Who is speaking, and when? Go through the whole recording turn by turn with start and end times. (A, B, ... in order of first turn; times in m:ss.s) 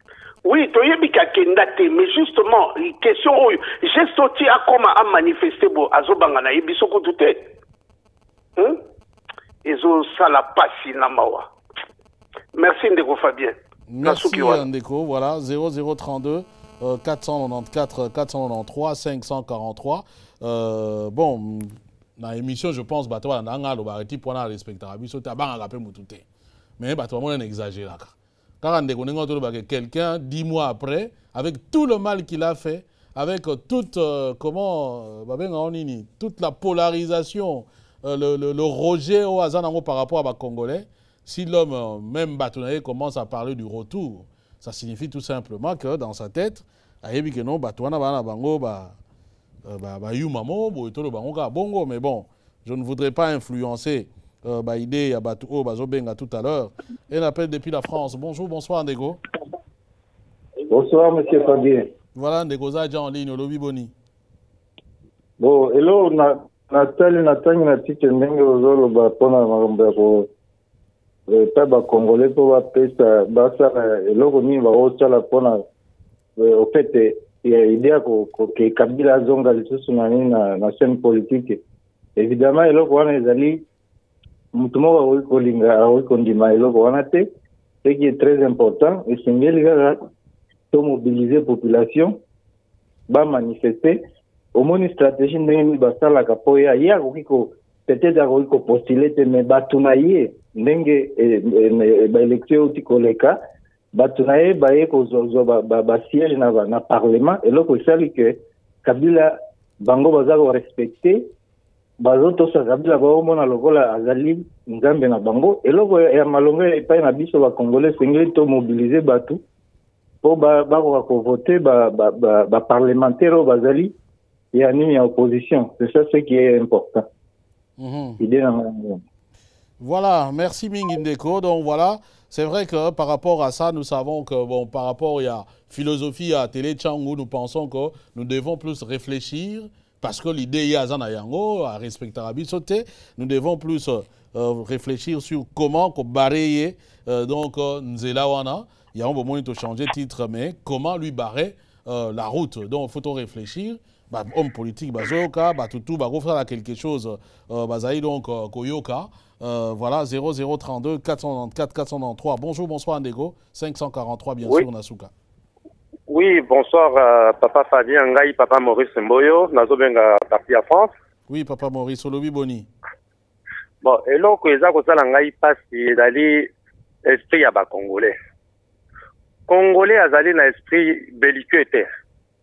0:00.4-0:07.4 A
0:09.6-0:11.5 A
0:12.5-0:14.6 A
0:13.9-0:26.2 B
0:26.8-0:49.0 B
0:49.6-0:59.2 B
1:00.7-1:01.9 C
1:02.1-1:03.9 B
1:05.4-1:10.3 C
1:11.3-1:15.6 C
1:16.4-1:21.6 C
1:22.2-1:23.6 C
1:24.5-1:27.3 C
1:27.8-1:30.1 C
1:30.7-1:32.2 C
1:33.1-1:34.0 C
1:34.5-1:43.4 C
1:43.9-1:51.3 C
1:52.0-1:59.4 C
2:00.2-2:03.9 C
2:04.5-2:07.0 C
2:07.8-2:08.2 B
2:08.2-2:09.0 C
2:09.8-2:45.1 B
2:46.1-2:50.9 D
2:51.3-2:52.7 B
2:53.8-2:56.5 D
2:57.0-2:58.1 D
2:59.5-3:01.9 D